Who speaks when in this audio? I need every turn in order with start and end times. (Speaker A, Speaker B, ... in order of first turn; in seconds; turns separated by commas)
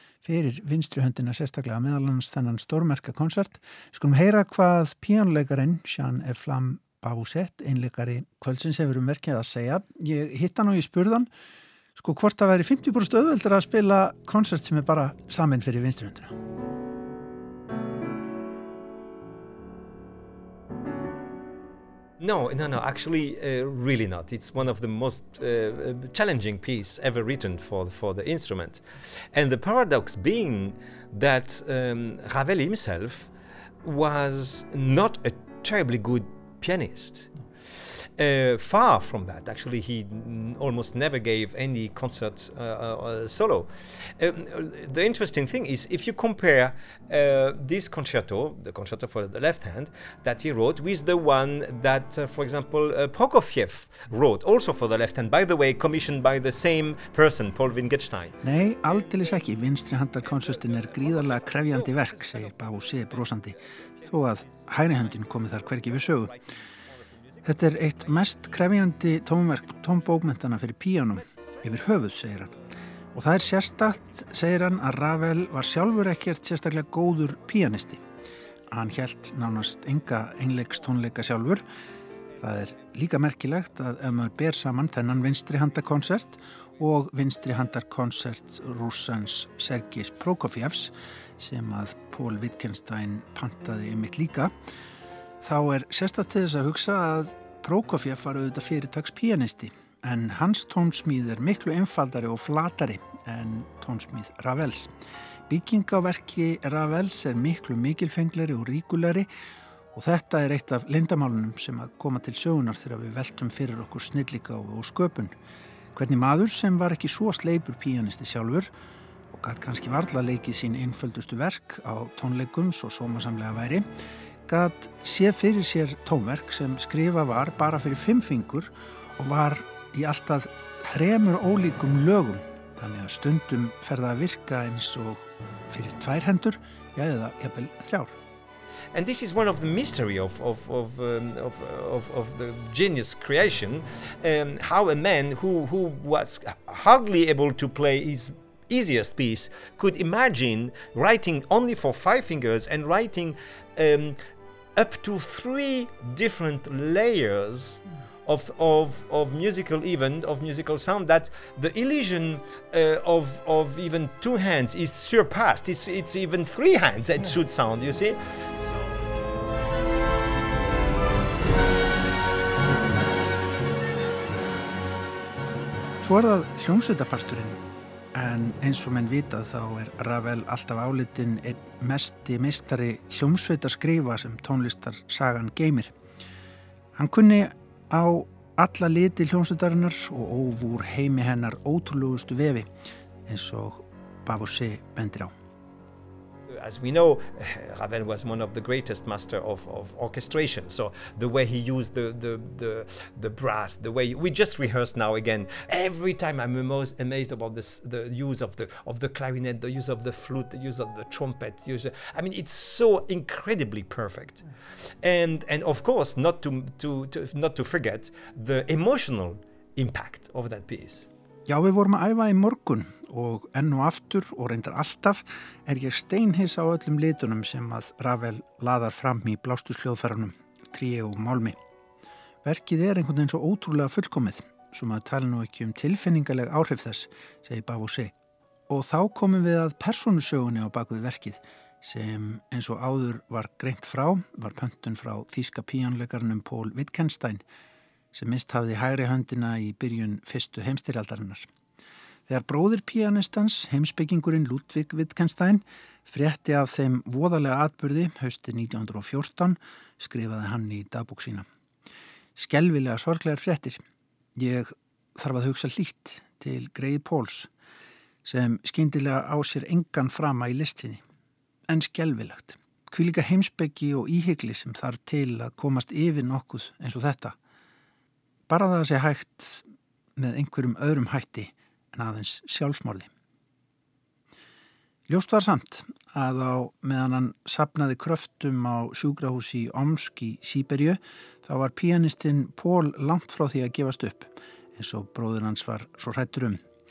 Speaker A: 0.2-11.3, Speaker A: 12.0-16.3, Speaker B: 22.2-33.3, Speaker B: 33.8-59.5, Speaker A: 58.4-66.4, Speaker B: 60.1-68.9, Speaker A: 67.4-72.5, Speaker B: 71.2-71.8, Speaker A: 73.2-78.0, Speaker A: 78.7-81.6, Speaker A: 82.4-94.5, Speaker A: 95.4-104.9, Speaker A: 105.5-109.3, Speaker A: 109.9-115.3, Speaker A: 115.9-118.7, Speaker A: 119.3-123.9, Speaker A: 124.5-138.2, Speaker B: 138.9-154.2, Speaker B: 154.8-168.9, Speaker A: 176.0-177.6, Speaker A: 178.1-185.9, Speaker A: 187.0-192.7, Speaker A: 193.3-195.3, Speaker B: 196.5-214.4, Speaker B: 215.0-221.1, Speaker A: 221.5-231.6, Speaker A: 232.4-238.1, Speaker A: 238.7-247.4, Speaker A: 248.1-251.5, Speaker A: 252.3-261.5, Speaker A: 262.4-263.8, Speaker A: 264.4-267.5, Speaker A: 268.2-271.0, Speaker A: 271.7-277.4, Speaker A: 278.5-279.6, Speaker A: 280.2-283.1, Speaker A: 285.1-296.6